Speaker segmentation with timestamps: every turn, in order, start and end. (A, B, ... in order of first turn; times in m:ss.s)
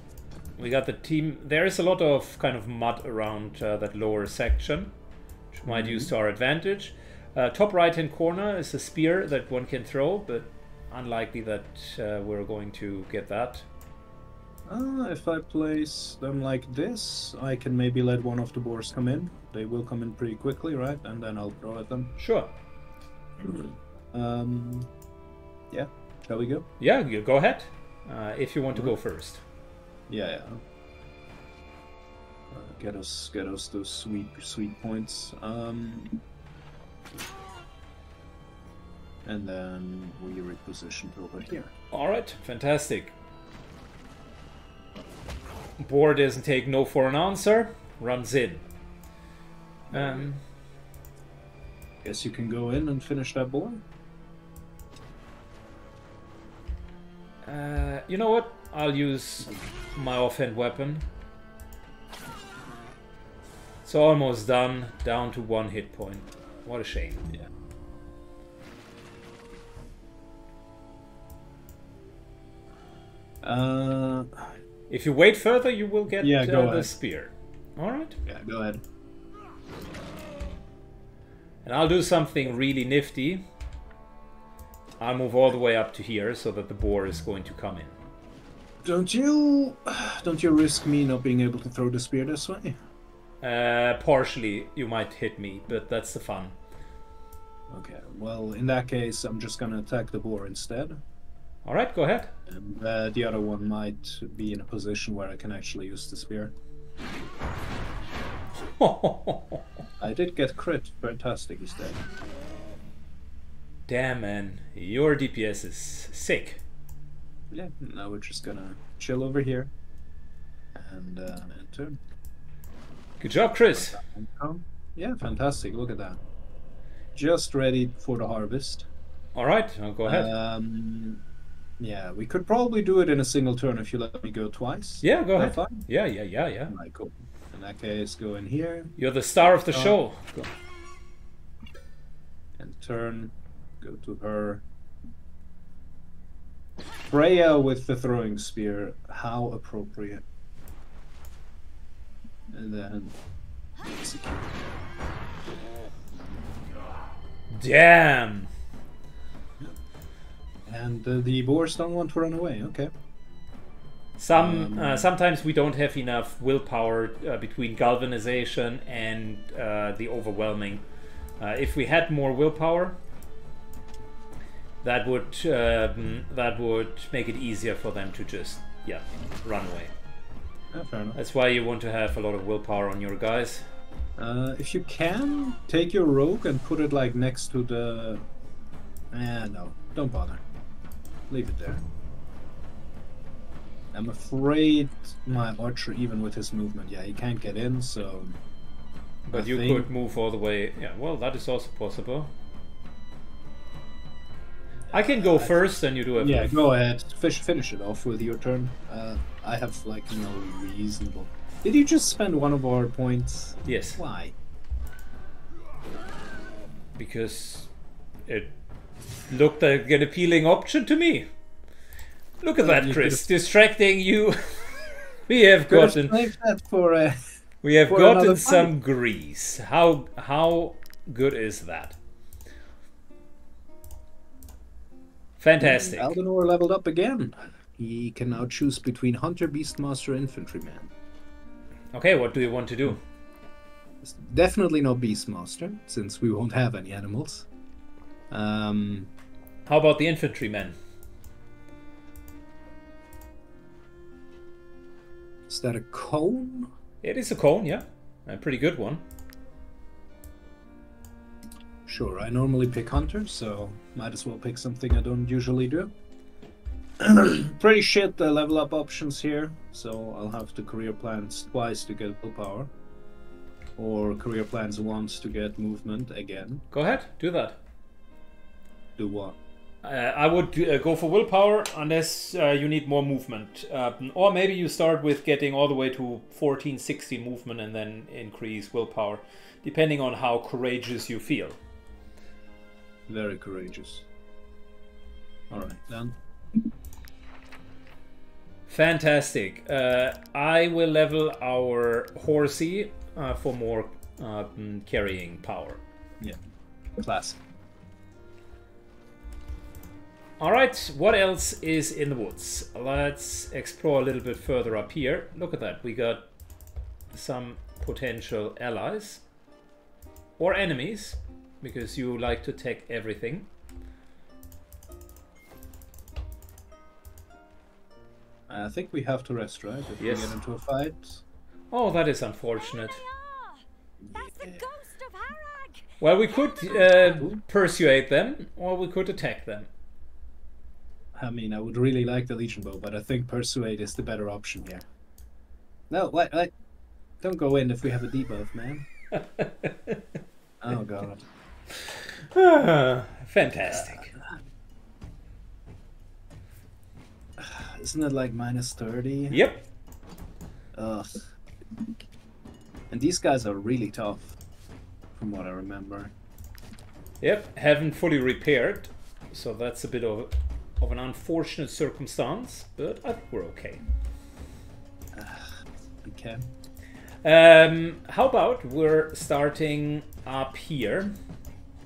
0:00.6-0:04.9 A
0:05.5-0:13.6 A
0:05.7-0:06.1 B
0:14.6-0:22.1 B
0:22.2-0:22.5 A
0:23.4-0:24.9 B
0:25.7-0:26.7 B
0:26.8-0:29.4 A
0:30.1-0:30.6 B
0:32.5-0:36.2 B
0:39.2-0:41.7 B
0:41.9-0:43.1 A
0:45.8-0:48.6 A
0:49.9-0:50.3 B
0:49.9-0:50.4 A
0:52.0-0:53.8 B
0:57.4-1:01.0 A
1:03.8-1:07.2 A
1:13.4-1:14.6 B
1:14.9-1:18.2 A
1:16.1-1:16.9 B
1:18.2-1:18.8 B
1:21.6-1:23.5 A
1:25.0-1:27.9 A
1:28.8-1:32.8 B
1:33.4-1:36.6 A
1:37.7-1:41.0 B
1:41.6-1:42.3 A
1:42.5-1:46.5 B
1:48.8-1:49.6 A
1:50.0-1:52.0 B
1:53.9-1:56.6 A
1:57.5-1:59.7 B
2:00.8-2:02.0 B
2:03.2-2:04.0 A
2:03.7-2:06.2 B
2:07.1-2:08.9 B
2:09.4-2:10.3 A
2:10.0-2:11.2 B
2:11.8-2:15.9 B
2:15.0-2:16.8 A
2:16.7-2:18.9 B
2:19.0-2:20.5 A
2:19.7-2:20.0 B
2:22.6-2:24.6 B
2:27.1-2:30.2 B
2:32.5-2:33.2 B
2:33.8-2:34.6 B
2:37.5-2:38.5 A
2:40.6-2:42.9 B
2:44.2-2:50.8 A
2:44.3-2:45.1 B
2:51.4-2:53.0 A
2:54.8-2:59.9 A
3:00.7-3:01.2 B
3:01.2-3:03.6 A
3:04.2-3:08.3 B
3:09.1-3:10.4 B
3:11.3-3:11.8 B
3:13.9-3:18.4 B
3:19.3-3:22.3 A
3:19.3-3:19.9 B
3:24.9-3:25.6 B
3:24.9-3:26.7 A
3:26.2-3:34.4 B
3:33.6-3:34.0 A
3:37.0-3:37.7 A
3:38.3-3:38.5 A
3:39.3-3:41.3 A
3:42.4-3:46.3 A
3:42.6-3:43.2 B
3:45.7-3:47.3 B
3:47.6-3:52.0 A
3:47.9-3:48.7 B
3:55.4-3:56.2 A
3:55.6-4:00.9 B
4:01.9-4:03.0 A
4:04.0-4:07.5 B
4:08.3-4:09.1 B
4:09.6-4:10.8 A
4:15.5-4:16.7 B
4:17.0-4:19.0 A
4:21.9-4:25.9 B
4:27.0-4:32.7 B
4:33.8-4:36.6 B
4:36.7-4:37.6 A
4:39.0-4:39.4 B
4:39.8-4:51.6 A
4:53.1-4:54.1 B
4:55.5-4:56.2 B
4:58.7-5:05.8 A
5:07.0-5:07.4 B
5:10.4-5:16.3 A
5:17.1-5:19.2 A
5:20.4-5:23.5 A
5:28.5-5:31.2 B
5:30.0-5:30.4 A
5:31.7-5:33.0 A
5:32.9-5:33.6 C
5:34.0-5:34.6 B
5:34.1-5:35.9 C
5:36.0-5:39.7 A
5:37.1-5:37.4 B
5:41.1-5:44.9 B
5:45.9-5:46.5 B
5:47.2-5:48.9 B
5:49.1-5:50.0 A
5:50.6-5:51.3 B
5:51.7-5:54.2 A
5:53.9-5:54.2 B
5:57.4-5:59.4 B
5:59.3-5:59.6 A
6:00.7-6:01.3 B
6:02.9-6:04.4 B
6:05.1-6:06.1 B
6:07.2-6:13.8 A
6:15.1-6:16.4 B
6:17.2-6:21.2 A